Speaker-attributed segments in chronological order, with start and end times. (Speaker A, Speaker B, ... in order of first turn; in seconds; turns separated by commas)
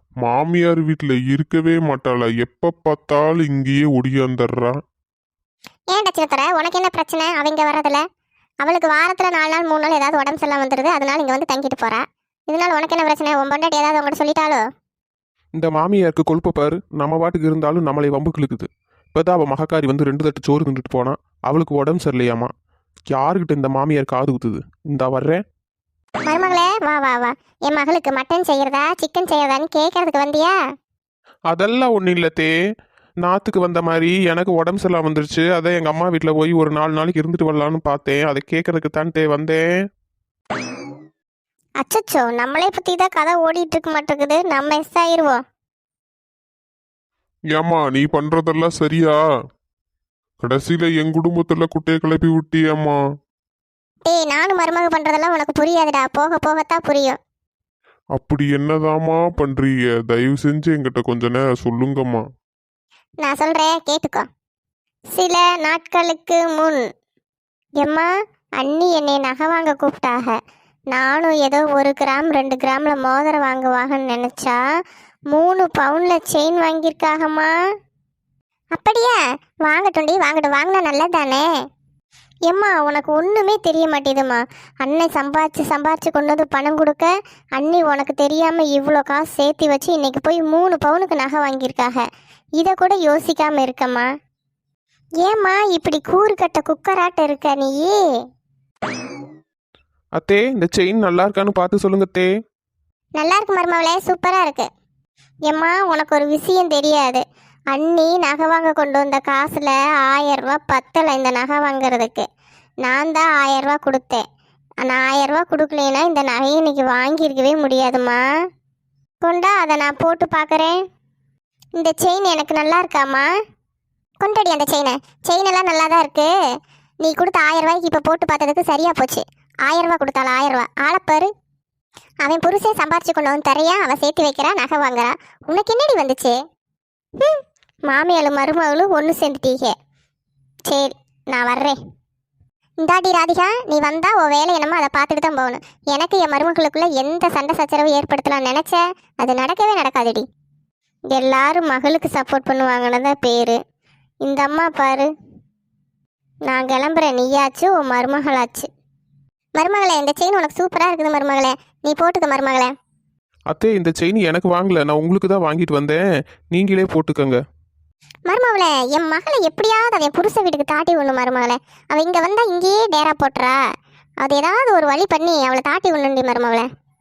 Speaker A: 0.2-4.8, Speaker B: 5.9-8.0, Speaker B: 8.6-14.6, Speaker C: 15.5-22.5, Speaker C: 23.1-25.4, Speaker B: 26.2-30.6, Speaker C: 31.5-32.5, Speaker C: 33.2-39.6, Speaker B: 41.8-45.4, Speaker A: 47.5-49.2, Speaker A: 50.4-53.0, Speaker B: 54.0-57.2, Speaker A: 58.1-62.2, Speaker B: 63.2-64.3, Speaker B: 65.2-66.8, Speaker B: 67.8-70.4, Speaker B: 70.9-74.6, Speaker B: 75.3-77.5, Speaker B: 78.8-81.5, Speaker B: 82.5-92.1, Speaker B: 92.6-94.1, Speaker B: 95.2-98.0, Speaker C: 100.2-102.3, Speaker B: 103.2-104.7, Speaker B: 105.5-112.2, Speaker B: 112.8-114.2, Speaker B: 114.8-118.2, Speaker B: 119.2-120.8, Speaker B: 121.8-123.3, Speaker B: 124.2-126.3, Speaker B: 127.0-131.3, Speaker B: 132.2-136.4, Speaker B: 137.2-139.7, Speaker B: 140.7-141.8, Speaker B: 142.8-150.2, Speaker B: 151.1-153.6, Speaker B: 154.2-155.1, Speaker B: 156.5-158.7, Speaker B: 159.6-162.7, Speaker C: 163.5-166.0, Speaker C: 166.5-167.4, Speaker B: 168.3-173.6, Speaker B: 174.2-176.7